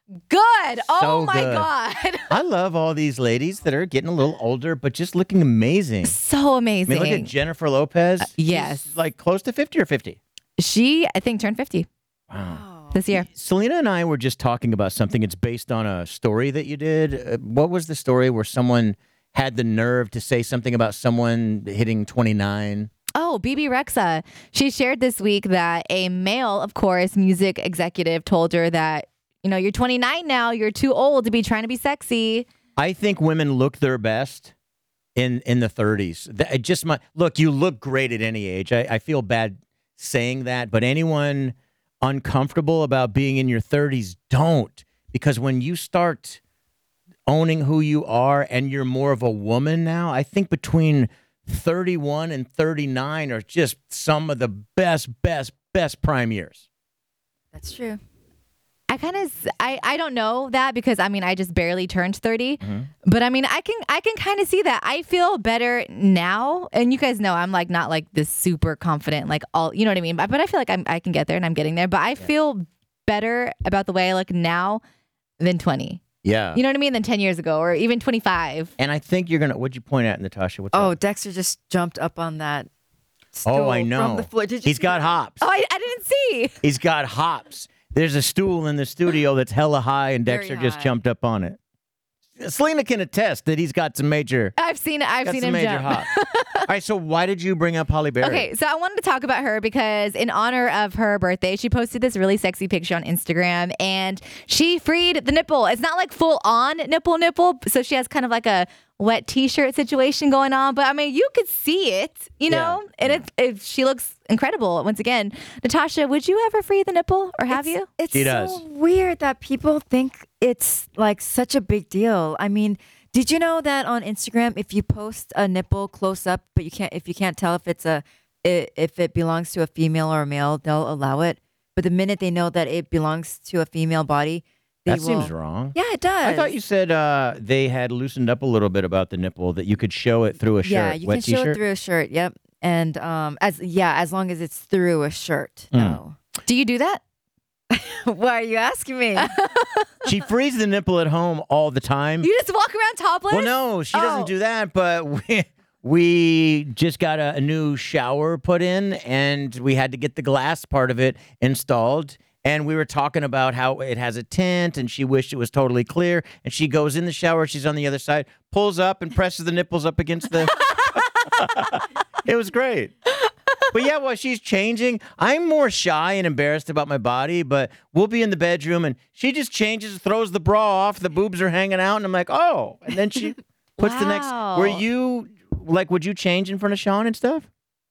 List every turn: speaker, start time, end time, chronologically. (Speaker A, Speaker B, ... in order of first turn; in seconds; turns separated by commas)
Speaker A: 0.3-2.3, Speaker B: 0.8-1.7, Speaker B: 2.3-6.2, Speaker A: 6.0-7.3, Speaker B: 6.9-10.2, Speaker A: 8.2-8.9, Speaker A: 10.6-11.9, Speaker B: 12.3-22.9, Speaker C: 12.4-13.0, Speaker A: 12.9-13.3, Speaker A: 23.1-32.5, Speaker B: 32.8-34.5, Speaker B: 35.1-46.4, Speaker B: 47.3-56.6, Speaker C: 57.5-58.0, Speaker A: 58.9-74.8, Speaker B: 62.6-62.9, Speaker A: 75.4-78.7, Speaker B: 76.2-76.6, Speaker B: 78.8-80.9, Speaker C: 80.7-82.7, Speaker C: 83.3-85.2, Speaker B: 83.5-85.4, Speaker A: 85.4-86.5, Speaker B: 86.6-91.6, Speaker C: 90.2-91.0, Speaker B: 92.4-94.5, Speaker A: 94.6-96.6, Speaker B: 95.2-96.1, Speaker B: 96.6-98.5, Speaker A: 98.2-117.9, Speaker B: 112.5-113.2, Speaker C: 117.5-136.5, Speaker B: 118.1-118.6, Speaker B: 134.9-141.6, Speaker C: 140.6-146.2, Speaker B: 145.7-146.0, Speaker A: 146.4-147.0, Speaker C: 147.7-149.3, Speaker A: 149.2-149.9, Speaker B: 150.1-152.3, Speaker A: 152.2-154.3, Speaker B: 153.3-172.9, Speaker B: 173.7-187.4, Speaker A: 183.8-184.8